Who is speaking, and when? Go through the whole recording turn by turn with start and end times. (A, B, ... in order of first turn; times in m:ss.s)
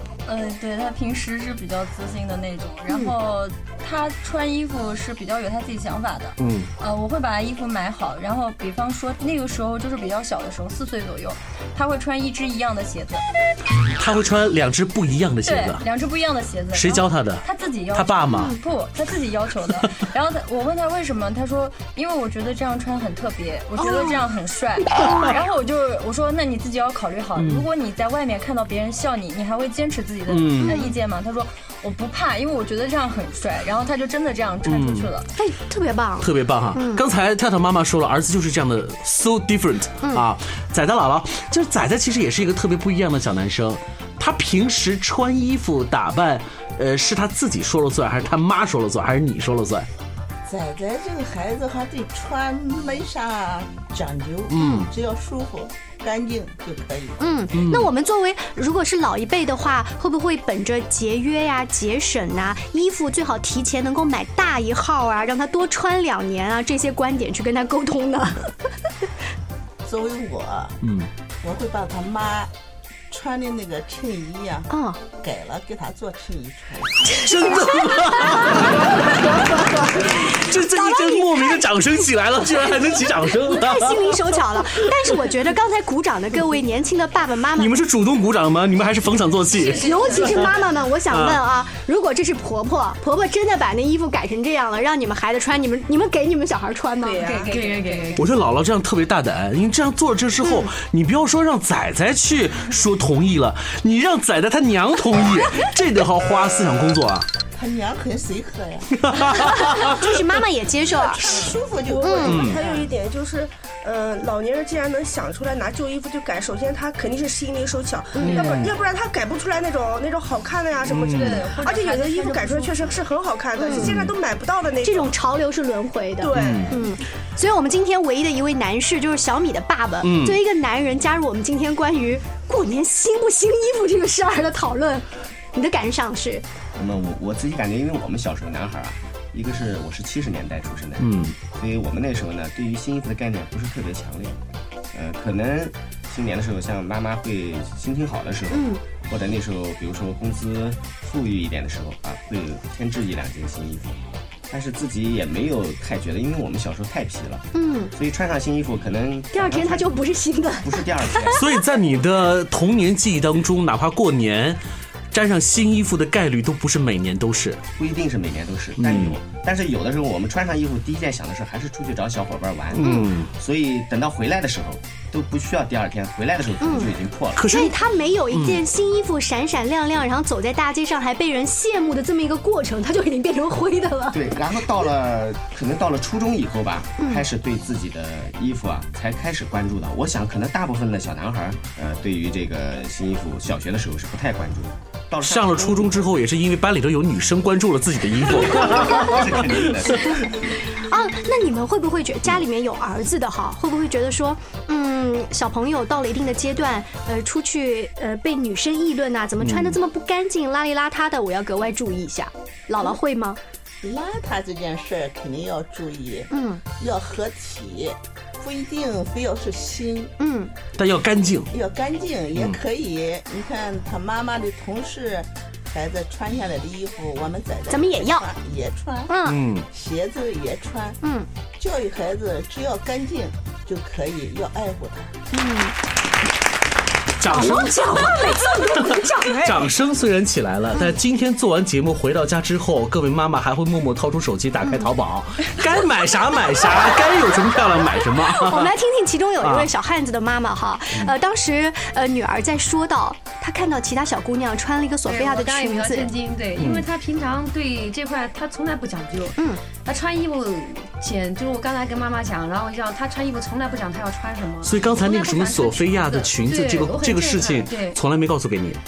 0:00.2-0:13.2 A
0:02.9-0:03.1 B
0:06.4-0:06.7 C
0:13.9-0:15.8 C
0:15.4-0:35.3 A
0:16.7-0:18.6 C
0:18.3-0:18.6 B
0:23.8-0:24.2 B
0:27.4-0:27.6 C
0:30.3-0:30.8 C
0:30.6-0:31.0 B
0:34.7-0:35.1 C
0:35.4-0:37.0 B
0:36.2-0:49.9 C
0:50.5-0:57.2 D
0:54.5-0:54.9 C
0:54.6-0:54.8 B
0:57.2-1:08.5 B
0:57.5-0:57.9 C
1:09.8-1:10.8 D
1:10.8-1:11.1 C
1:11.4-1:12.5 D
1:13.1-1:17.2 D
1:14.7-1:15.0 B
1:17.1-1:24.2 C
1:20.6-1:21.7 B
1:22.6-1:27.8 B
1:27.6-1:30.5 C
1:29.5-1:30.6 E
1:29.7-1:37.4 B
1:31.1-1:31.4 C
1:37.0-1:38.2 F
1:37.1-1:38.3 E
1:37.4-1:38.1 A
1:38.2-1:47.3 C
1:40.4-1:40.7 B
1:47.5-1:49.5 D
1:49.0-1:50.1 C
1:49.4-1:51.3 B
1:51.0-1:52.9 D
1:51.3-2:05.1 F
1:52.0-1:52.5 B
1:52.2-1:52.6 C
1:58.2-1:58.5 B
1:58.2-1:58.8 C
2:00.9-2:01.4 C
2:01.1-2:03.0 A
2:03.6-2:04.0 B
2:03.8-2:04.1 C
2:04.8-2:16.5 B
2:06.2-2:06.8 F
2:06.4-2:06.8 C
2:10.0-2:10.4 C
2:16.8-2:24.4 G
2:21.0-2:21.4 C
2:24.9-2:34.0 G
2:28.5-2:28.8 B
2:34.5-2:39.9 G
2:37.5-2:37.9 B
2:39.3-2:41.4 B
2:40.6-2:41.4 G
2:41.3-2:44.6 C
2:45.1-2:47.6 C
2:47.8-2:57.5 G
2:48.8-2:49.2 C
2:52.7-2:53.3 C
2:52.8-2:53.1 B
2:56.6-2:56.9 B
2:57.4-2:57.7 C
2:57.4-3:04.2 B
2:58.3-2:58.6 C
3:04.1-3:16.0 G
3:07.0-3:07.3 B
3:15.2-3:20.2 C
3:18.5-3:20.6 G
3:20.8-3:33.4 B
3:29.4-3:29.8 C
3:33.8-3:40.1 D
3:36.3-3:36.6 B
3:40.2-3:40.5 B
3:40.8-3:41.5 C
3:41.5-3:49.2 D
3:47.7-3:48.3 B
3:49.1-3:49.4 B
3:49.2-3:49.7 C
3:49.7-3:51.0 D
3:51.0-3:51.3 B
3:51.6-3:55.2 D
3:55.3-3:55.8 B
3:57.2-4:08.7 C
3:57.3-3:59.7 B
4:04.6-4:04.9 B
4:08.2-4:16.1 B
4:09.4-4:09.7 C
4:15.0-4:28.0 E
4:16.6-4:16.9 C
4:24.6-4:28.8 C